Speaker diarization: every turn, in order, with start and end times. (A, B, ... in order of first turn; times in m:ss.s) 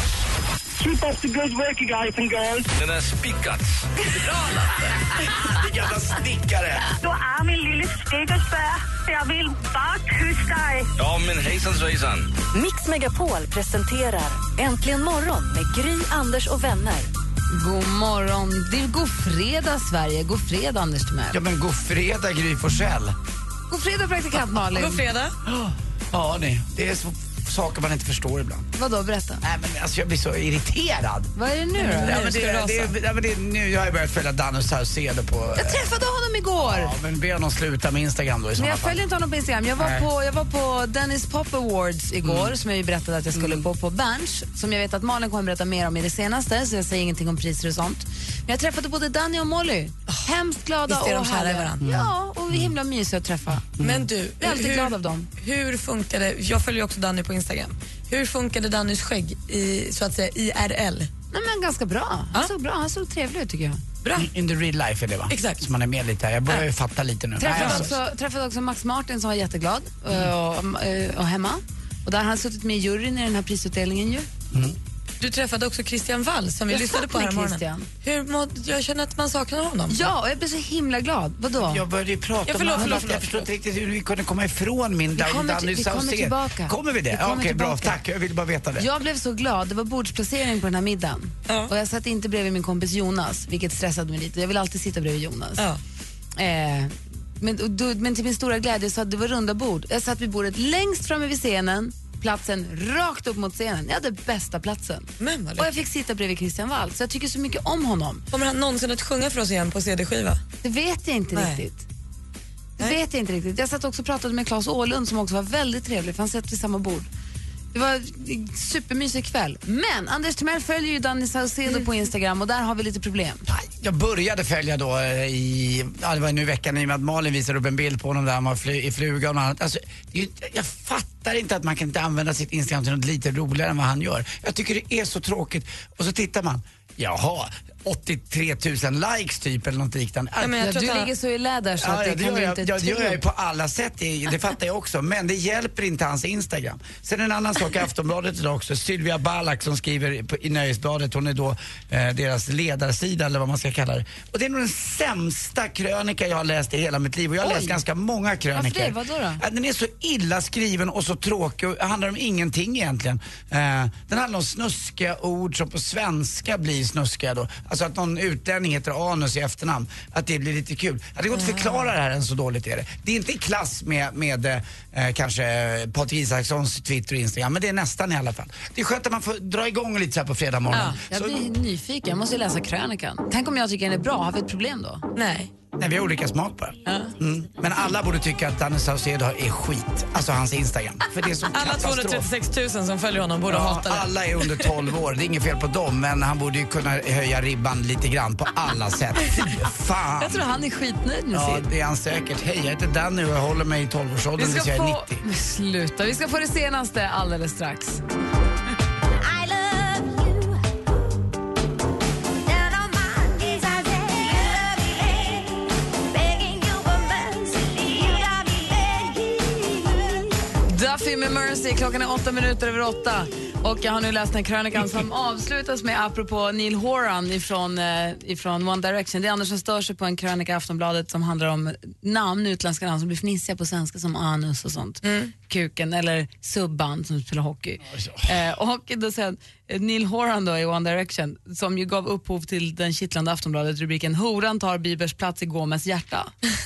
0:00.8-0:02.7 A
0:02.7-0:03.8 B
0:05.4-0:06.9 C
0:07.0-0:10.9 A
0:11.0-0:12.3 B
0:12.5-0:17.1 D
0:17.5-0:21.4 E
0:21.3-0:23.2 C
0:23.7-0:25.0 E
0:24.7-0:25.3 F
0:25.4-0:28.7 C
0:28.8-0:29.4 E
0:29.4-0:31.3 C
0:31.4-0:32.2 E
0:31.8-0:32.9 F
0:31.9-0:35.9 C
0:35.6-0:36.9 E
0:36.6-0:39.0 C
0:38.6-0:53.6 E
0:39.8-0:40.1 C
0:42.2-0:42.6 C
0:43.3-0:43.6 C
0:50.9-0:51.8 F
0:51.8-0:52.7 C
0:53.7-0:54.1 C
0:53.8-1:01.1 F
0:54.4-0:55.3 E
1:01.3-1:03.8 E
1:04.0-1:04.3 F
1:04.1-1:07.9 C
1:05.3-1:05.6 F
1:07.4-1:14.3 E
1:07.5-1:07.9 F
1:14.5-1:14.8 C
1:15.2-1:20.1 F
1:16.7-1:17.9 E
1:19.9-1:21.8 E
1:21.6-1:28.9 C
1:22.4-1:23.5 F
1:25.1-1:28.0 E
1:28.8-1:35.6 E
1:36.4-1:48.2 E
1:45.2-1:45.7 F
1:48.3-1:50.4 F
1:50.6-1:51.8 E
1:51.3-1:51.6 F
1:52.8-1:57.1 E
1:57.7-2:03.4 E
2:03.5-2:20.6 C
2:20.4-2:21.1 F
2:20.6-2:23.2 E
2:21.8-3:01.4 C
2:37.4-2:37.8 E
2:38.5-2:39.4 E
2:51.3-2:51.9 F
3:00.7-3:05.0 E
3:05.2-3:05.5 F
3:05.8-3:12.3 C
3:06.8-3:07.1 E
3:11.5-3:14.8 F
3:13.5-3:20.4 C
3:20.2-3:21.7 E
3:21.3-3:25.2 C
3:24.4-3:28.0 E
3:29.2-3:30.8 D
3:32.4-3:40.4 D
3:40.7-4:06.3 E
3:55.0-3:55.3 F
3:57.9-3:58.4 C